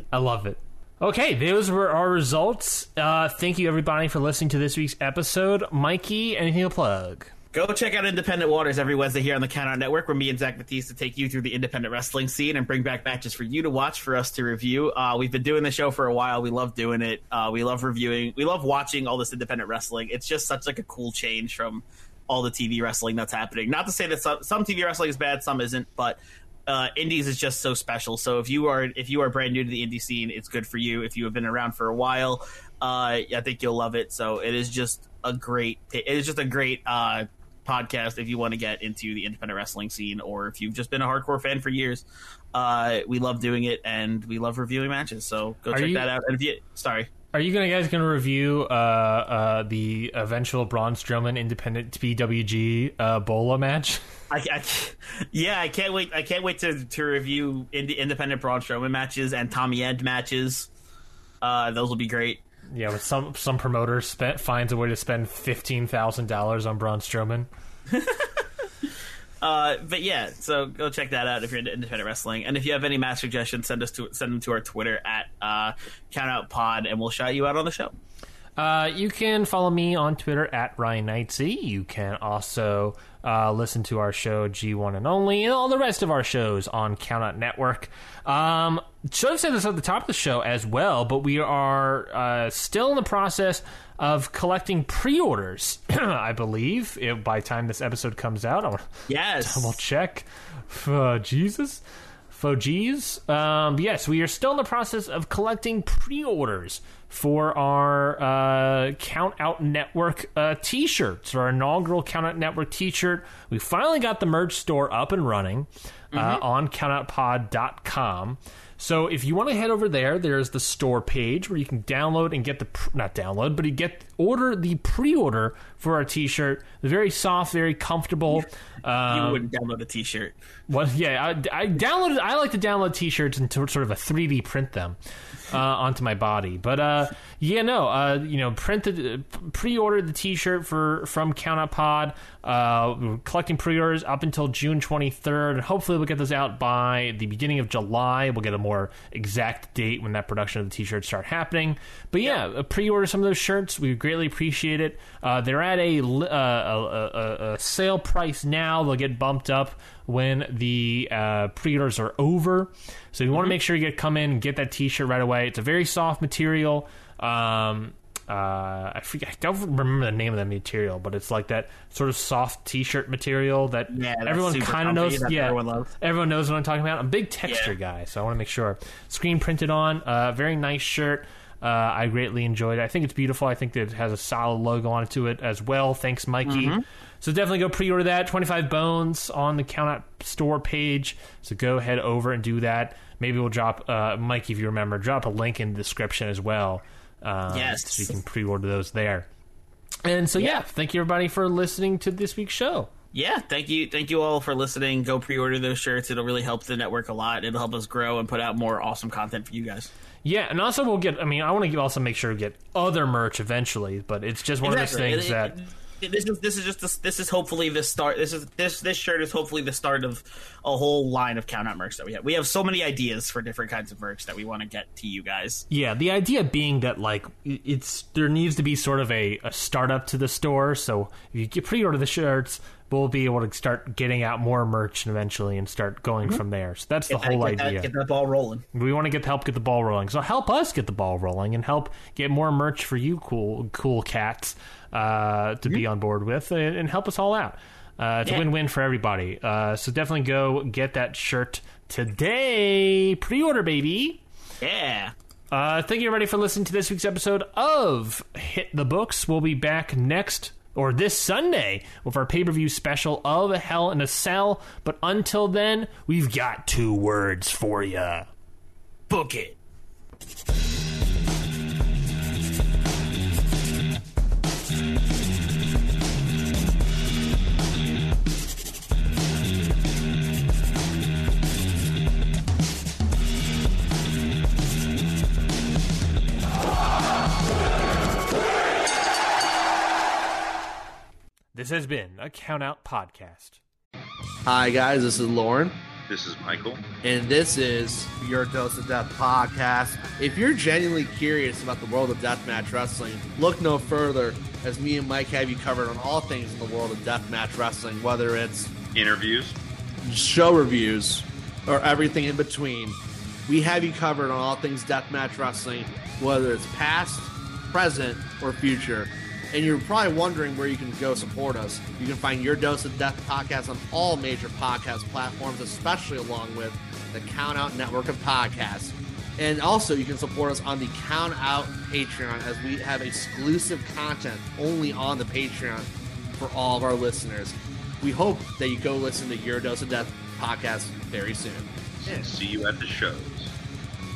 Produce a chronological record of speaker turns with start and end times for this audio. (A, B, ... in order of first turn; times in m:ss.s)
0:00.1-0:07.3 A
0:07.5-0:47.1 B
0:45.7-0:46.1 A
0:47.3-0:54.0 A
0:54.3-1:00.7 B
1:01.4-1:02.4 B
1:02.7-1:07.5 A
1:07.9-1:08.9 B
1:09.4-1:18.0 B
1:18.6-2:09.4 A
1:39.1-1:39.8 B
1:56.1-1:56.4 B
2:09.1-2:10.4 B
2:10.7-2:15.0 A
2:15.5-3:19.3 A
2:53.9-2:55.9 B
2:57.4-2:57.7 B
3:06.4-3:06.8 B
3:17.5-3:18.2 B
3:20.0-3:22.9 A
3:23.1-3:29.9 B
3:30.2-3:35.6 A
3:34.6-3:45.7 B
3:45.7-3:57.9 A
3:57.1-3:58.6 B
3:58.7-4:14.2 A
4:14.6-4:15.1 B
4:15.5-4:28.3 A
4:29.1-4:29.6 B
4:51.6-4:53.6 A
4:54.5-4:55.8 C
4:56.1-4:56.8 D
4:57.0-5:08.7 C
5:09.0-5:09.6 D
5:10.0-5:42.4 C
5:42.1-5:43.5 D